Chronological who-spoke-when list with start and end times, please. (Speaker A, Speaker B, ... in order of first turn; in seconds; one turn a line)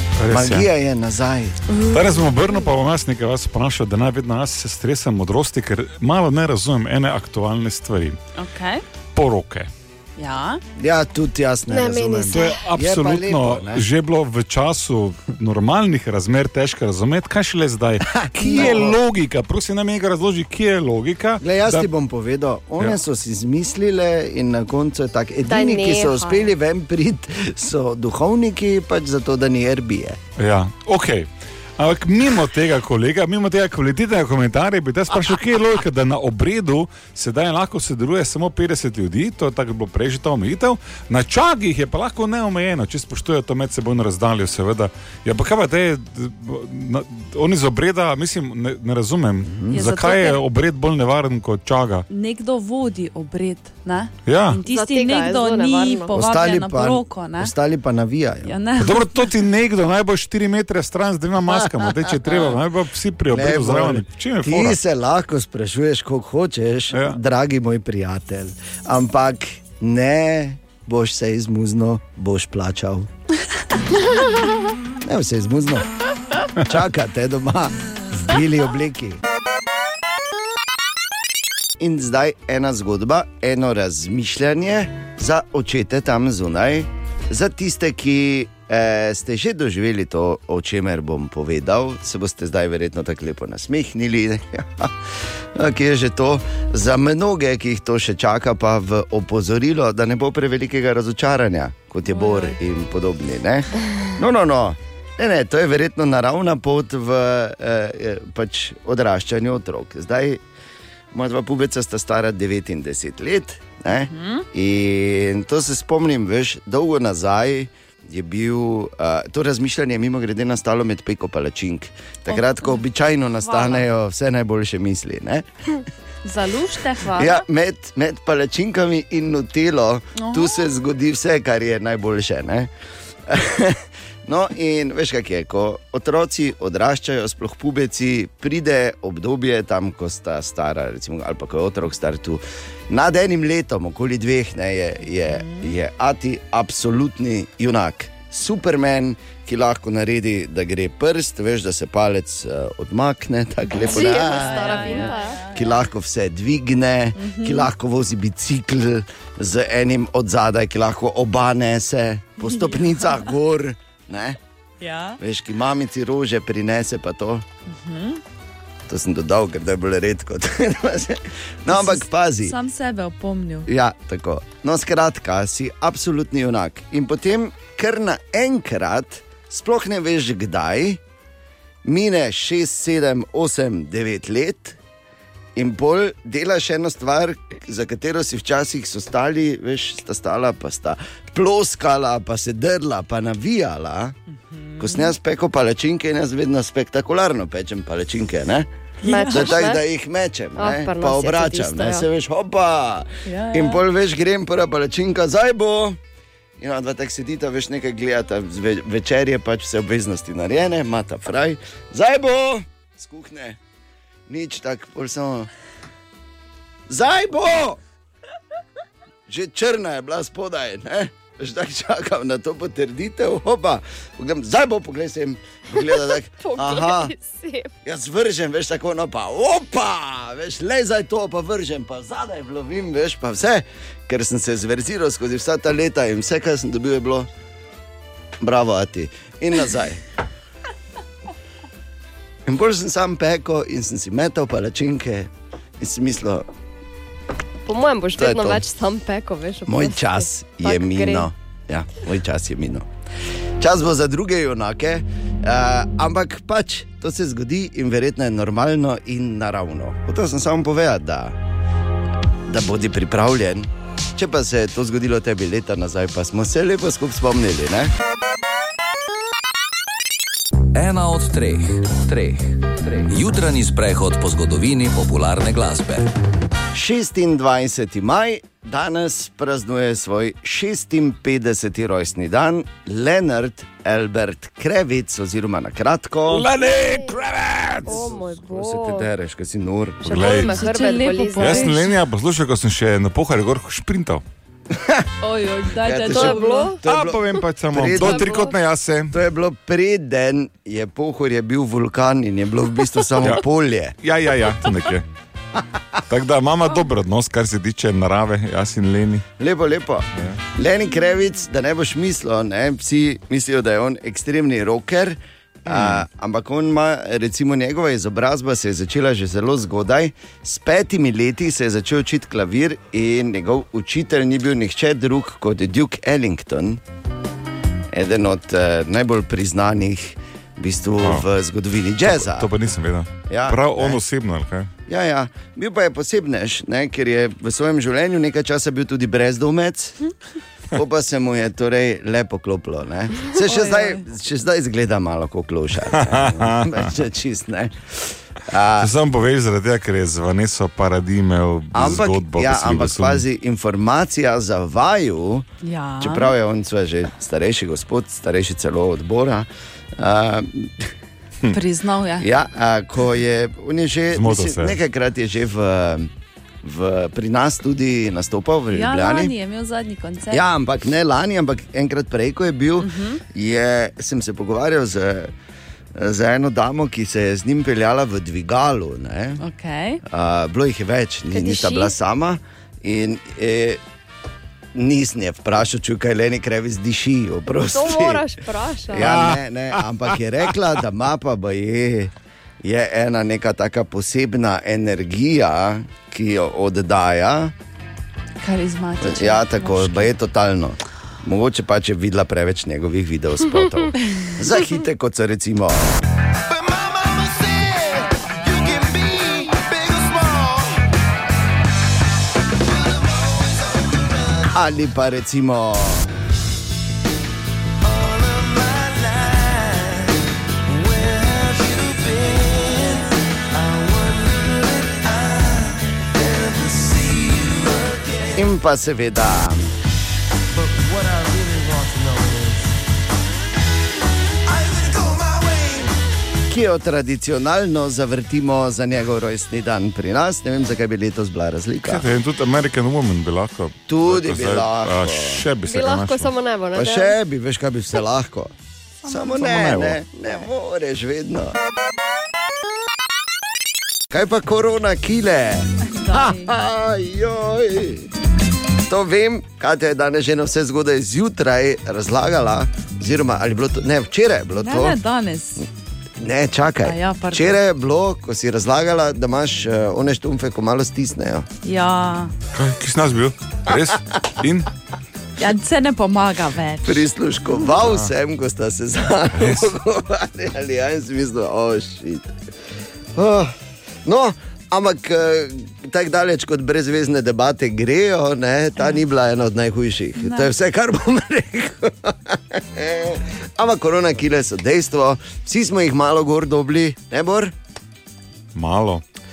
Speaker A: 0.2-0.7
Speaker B: 0.3-1.6
Speaker C: 1.7-2.2
Speaker A: 1.9-8.2
Speaker D: 8.4-8.8
Speaker A: 9.2-9.7
Speaker D: 10.2-10.6
Speaker B: 10.8-13.8
Speaker C: 11.7-12.5
Speaker A: 12.3-21.9
Speaker B: 18.1-19.0
Speaker B: 21.4-30.2
Speaker C: 25.5-26.5
Speaker A: 30.4-52.1
Speaker D: 49.7-50.4
Speaker D: 52.1-57.5
Speaker A: 54.3-54.6
Speaker C: 54.7-56.2
Speaker B: 56.1-58.5
Speaker D: 58.5-59.1
Speaker A: 58.8-64.8
Speaker B: 61.8-62.4
Speaker B: 63.3-73.1
Speaker A: 66.9-67.2
Speaker B: 75.0-75.9
Speaker B: 76.6-79.2
Speaker B: 81.8-95.0
Speaker B: 95.5-110.4
Speaker D: 102.1-102.6
Speaker B: 111.1-125.5
Speaker D: 114.1-114.5
Speaker D: 122.3-122.8
Speaker D: 123.4-123.9
Speaker D: 126.2-127.4
Speaker B: 127.1-132.7
Speaker D: 130.2-130.5
Speaker B: 133.3-164.4
Speaker D: 145.3-145.7
Speaker C: 153.8-155.5
Speaker D: 153.8-155.7
Speaker D: 157.2-157.7
Speaker D: 162.5-162.8
Speaker D: 164.8-165.2
Speaker B: 165.2-167.4
Speaker D: 167.7-168.2
Speaker B: 168.9-172.6
Speaker D: 171.7-173.7
Speaker B: 173.7-181.0
Speaker B: 181.8-184.8
Speaker B: 185.6-194.2
Speaker D: 194.5-195.1
Speaker B: 194.8-198.7
Speaker D: 199.0-199.6
Speaker C: 199.1-199.8
Speaker B: 199.2-206.0
Speaker C: 200.6-202.1
Speaker D: 203.2-203.8
Speaker B: 206.6-213.6
Speaker B: 214.3-215.5
Speaker B: 216.9-217.8
Speaker B: 219.3-227.1
Speaker C: 225.8-227.7
Speaker B: 227.8-237.3
Speaker B: 238.4-240.0
Speaker B: 242.5-246.5
Speaker C: 247.7-251.3
Speaker B: 248.2-248.6
Speaker B: 249.7-252.9
Speaker B: 253.6-261.4
Speaker B: 262.5-267.9
Speaker E: 270.7-276.1
Speaker B: 276.7-286.5
Speaker A: 286.3-288.1
Speaker C: 286.7-287.2
Speaker C: 287.9-289.1
Speaker B: 287.9-290.2
Speaker A: 290.0-290.6
Speaker C: 290.0-291.8
Speaker D: 290.1-292.0
Speaker A: 291.4-294.2
Speaker B: 294.7-295.1
Speaker D: 295.2-296.8
Speaker B: 295.8-298.5
Speaker C: 296.1-296.8
Speaker A: 296.8-299.2
Speaker C: 297.9-298.6
Speaker B: 299.1-303.9
Speaker A: 304.0-305.1
Speaker A: 306.1-309.2
Speaker B: 309.4-326.8
Speaker A: 310.1-310.4
Speaker A: 315.7-316.0
Speaker B: 327.9-332.5
Speaker A: 332.1-334.7
Speaker B: 333.3-334.0
Speaker B: 334.9-340.0
Speaker B: 340.7-348.9
Speaker D: 343.3-344.0
Speaker A: 345.9-346.9
Speaker A: 348.8-353.2
Speaker B: 351.7-355.5
Speaker D: 355.6-356.4
Speaker B: 356.0-360.9
Speaker D: 361.5-362.3
Speaker B: 362.2-366.1
Speaker A: 364.1-364.8
Speaker B: 366.6-369.3
Speaker D: 368.7-370.4
Speaker B: 370.3-375.3
Speaker D: 372.8-373.2
Speaker B: 375.9-379.4
Speaker D: 379.4-380.0
Speaker B: 380.1-383.8
Speaker C: 381.3-381.9
Speaker B: 384.8-388.2
Speaker C: 387.6-389.1
Speaker B: 388.9-392.1
Speaker A: 388.9-389.9
Speaker B: 392.6-397.5
Speaker D: 398.4-400.1
Speaker B: 399.0-406.0
Speaker B: 406.8-410.6
Speaker B: 414.5-416.1
Speaker E: 426.8-427.5
Speaker B: 428.3-429.7
Speaker B: 436.5-442.1
Speaker A: 441.8-446.4
Speaker B: 443.9-445.5
Speaker C: 445.6-447.2
Speaker B: 446.8-448.5
Speaker D: 449.1-449.6
Speaker B: 449.1-451.6
Speaker A: 449.4-450.0
Speaker B: 454.1-458.1
Speaker D: 455.9-456.5
Speaker B: 458.9-465.0
Speaker D: 464.6-465.7
Speaker B: 466.2-471.5
Speaker D: 466.9-467.6
Speaker D: 471.6-472.3
Speaker A: 472.5-474.7
Speaker D: 475.4-477.1
Speaker B: 476.9-482.3
Speaker A: 479.4-479.7
Speaker B: 483.1-483.5
Speaker B: 484.1-497.5
Speaker D: 490.2-490.5
Speaker A: 498.6-499.0